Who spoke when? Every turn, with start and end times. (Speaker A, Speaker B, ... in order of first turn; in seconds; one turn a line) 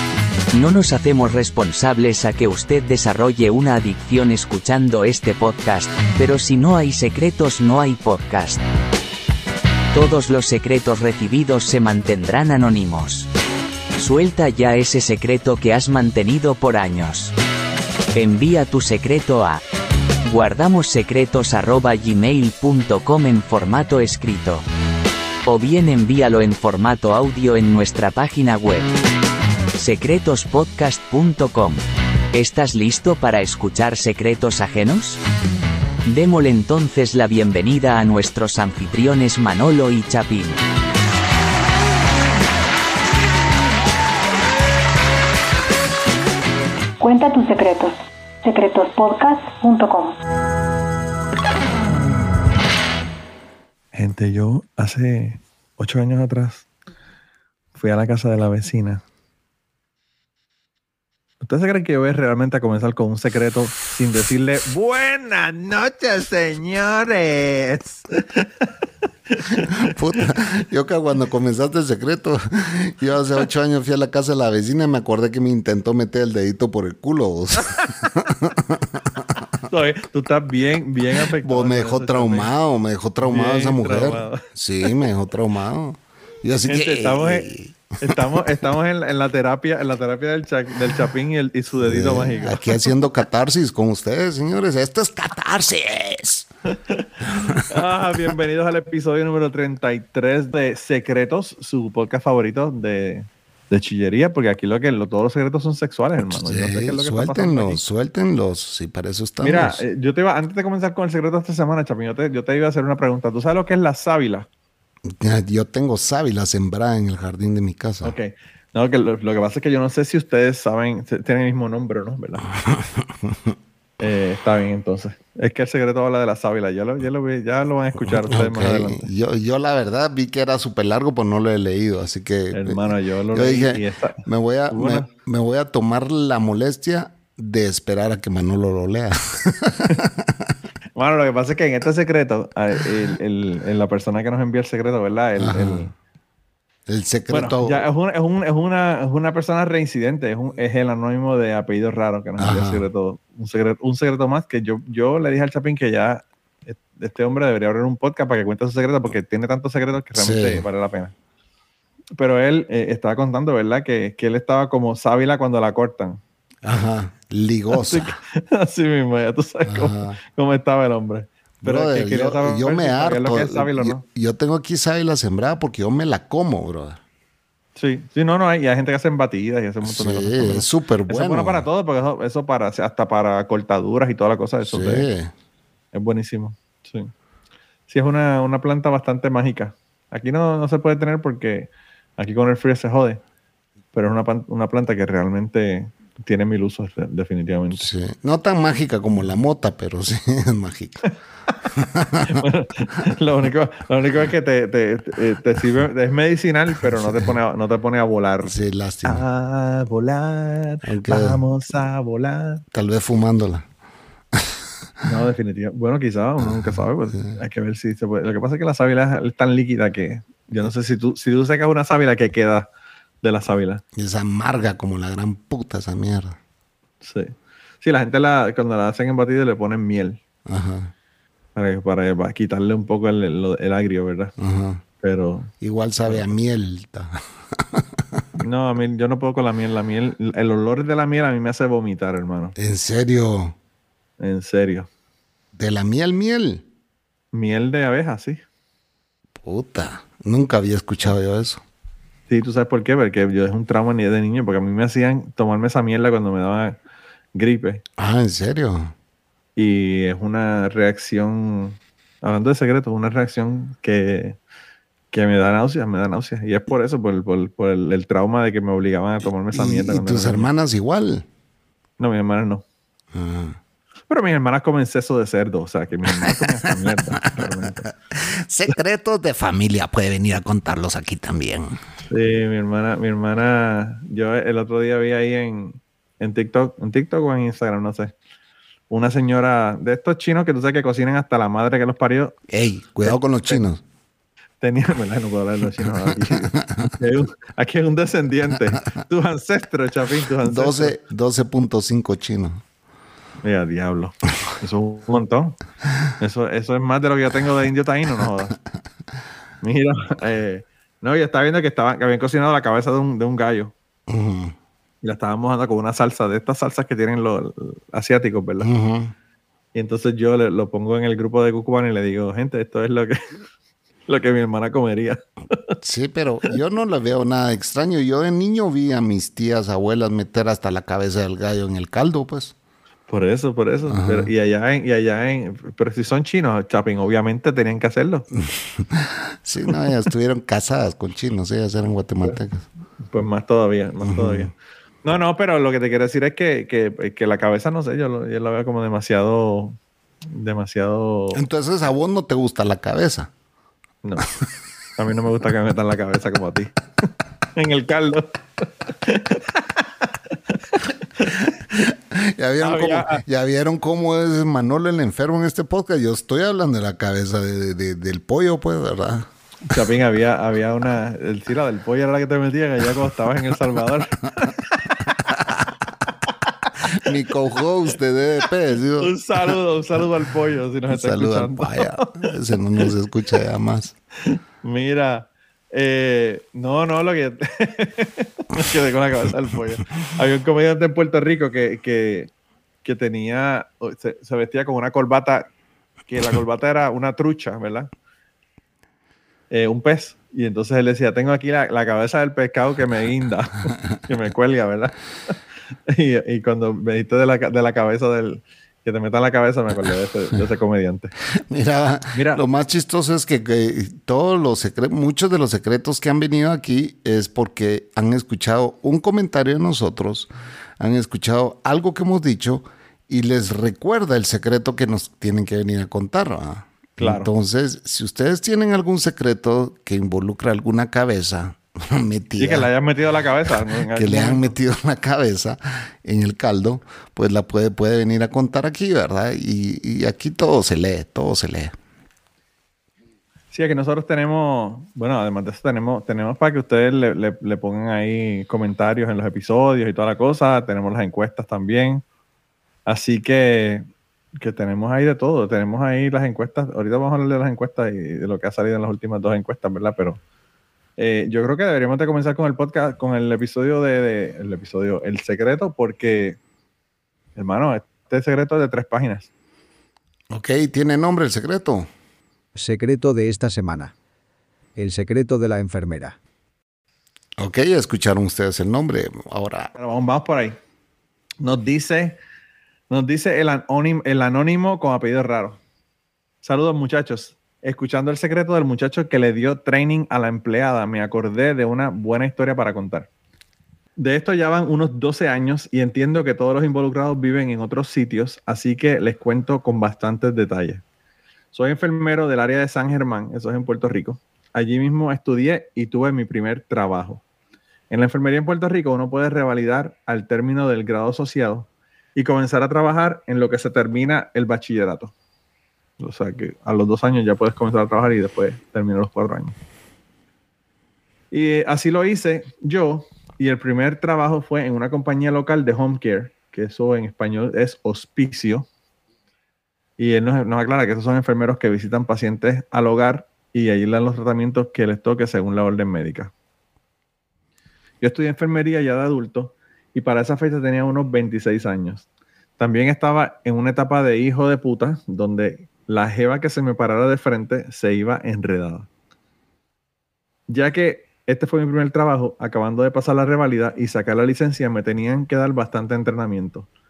Speaker A: 0.5-8.6
Speaker A: 9.9-13.3
Speaker A: 14.0-17.3
Speaker A: 18.1-19.6
Speaker A: 20.3-24.6
Speaker A: 25.4-28.9
Speaker A: 29.8-31.8
Speaker A: 32.3-35.2
Speaker A: 36.1-40.6
Speaker B: 47.0-50.2
Speaker C: 53.9-56.7
Speaker C: 57.8-59.0
Speaker C: 61.4-68.7
Speaker C: 69.3-70.3
Speaker D: 69.7-79.2
Speaker C: 79.7-82.5
Speaker D: 81.4-88.4
Speaker C: 83.2-85.1
Speaker C: 86.7-87.5
Speaker C: 88.0-92.9
Speaker D: 91.8-96.5
Speaker C: 96.8-107.8
Speaker D: 106.2-109.8
Speaker C: 109.4-114.5
Speaker D: 115.1-118.2
Speaker C: 118.0-122.5
Speaker D: 122.7-123.5
Speaker C: 124.0-129.1
Speaker D: 128.0-140.6
Speaker C: 132.5-135.1
Speaker C: 141.0-145.9
Speaker D: 145.4-145.9
Speaker D: 146.9-147.9
Speaker C: 147.3-161.1
Speaker D: 152.4-152.9
Speaker D: 160.2-160.7
Speaker C: 162.2-166.2
Speaker D: 166.6-168.2
Speaker C: 167.7-174.0
Speaker D: 169.7-170.2
Speaker D: 171.6-177.0
Speaker C: 177.8-185.1
Speaker D: 179.8-181.7
Speaker D: 184.6-185.3
Speaker C: 185.9-187.1
Speaker C: 187.9-193.2
Speaker C: 193.9-197.9
Speaker D: 197.8-201.2
Speaker D: 201.8-202.4
Speaker C: 202.2-212.6
Speaker D: 206.9-207.3
Speaker D: 208.4-209.2
Speaker D: 210.8-211.4
Speaker D: 212.7-213.7
Speaker D: 214.3-214.7
Speaker C: 215.0-222.7
Speaker D: 216.4-217.4
Speaker C: 223.2-223.8
Speaker D: 223.9-226.4
Speaker C: 227.0-230.2
Speaker D: 230.5-230.9
Speaker C: 231.6-234.3
Speaker D: 234.4-234.8
Speaker C: 235.0-235.5
Speaker D: 235.6-238.2
Speaker C: 238.4-242.6
Speaker D: 242.6-243.6
Speaker C: 244.2-244.9
Speaker D: 245.6-246.7
Speaker C: 247.3-248.4
Speaker D: 249.4-251.6
Speaker C: 252.3-256.8
Speaker C: 257.4-257.8
Speaker D: 258.0-258.9
Speaker C: 259.6-264.4
Speaker C: 265.1-270.5
Speaker D: 269.2-271.3
Speaker C: 272.0-272.6
Speaker D: 273.1-273.6
Speaker C: 274.1-277.9
Speaker D: 276.1-276.4
Speaker D: 277.4-281.8
Speaker C: 282.1-288.1
Speaker C: 288.9-292.4
Speaker D: 292.5-293.8
Speaker C: 293.0-293.6
Speaker C: 294.6-301.0
Speaker D: 296.3-296.9
Speaker D: 300.4-302.6
Speaker C: 303.4-305.6
Speaker C: 306.2-308.6
Speaker C: 309.6-313.7
Speaker D: 314.1-314.6
Speaker C: 315.0-318.7
Speaker D: 318.6-319.1
Speaker C: 319.7-323.2
Speaker C: 324.1-325.8
Speaker D: 325.8-332.6
Speaker C: 333.1-338.3
Speaker D: 333.9-334.3
Speaker D: 338.4-342.7
Speaker C: 343.1-344.5
Speaker D: 344.0-344.5
Speaker C: 345.0-351.4
Speaker D: 351.3-353.3
Speaker C: 355.0-356.8
Speaker C: 357.6-361.4
Speaker D: 361.7-369.3
Speaker C: 362.6-363.2
Speaker C: 369.7-375.5
Speaker D: 376.8-379.6
Speaker C: 379.0-382.9
Speaker D: 380.9-383.9
Speaker C: 384.2-392.3
Speaker C: 392.8-395.5
Speaker C: 396.1-397.9
Speaker C: 399.5-405.4
Speaker C: 405.9-411.1
Speaker D: 411.4-432.7
Speaker C: 412.1-412.4
Speaker C: 427.0-427.3
Speaker C: 432.4-434.5
Speaker D: 433.9-441.8
Speaker C: 443.5-452.0
Speaker C: 452.9-453.9
Speaker C: 454.4-460.2
Speaker C: 461.0-466.4
Speaker C: 467.4-469.3
Speaker D: 470.3-471.9
Speaker E: 472.6-473.9
Speaker E: 474.8-476.2
Speaker D: 477.4-479.7
Speaker C: 479.8-480.6
Speaker C: 481.4-482.2
Speaker C: 482.9-485.6
Speaker C: 486.4-493.1
Speaker C: 494.0-500.8
Speaker C: 501.5-507.2
Speaker C: 507.9-515.1
Speaker C: 516.0-519.6
Speaker C: 521.3-528.7
Speaker C: 530.0-536.3
Speaker C: 538.0-542.1
Speaker C: 542.6-548.9
Speaker C: 550.5-556.7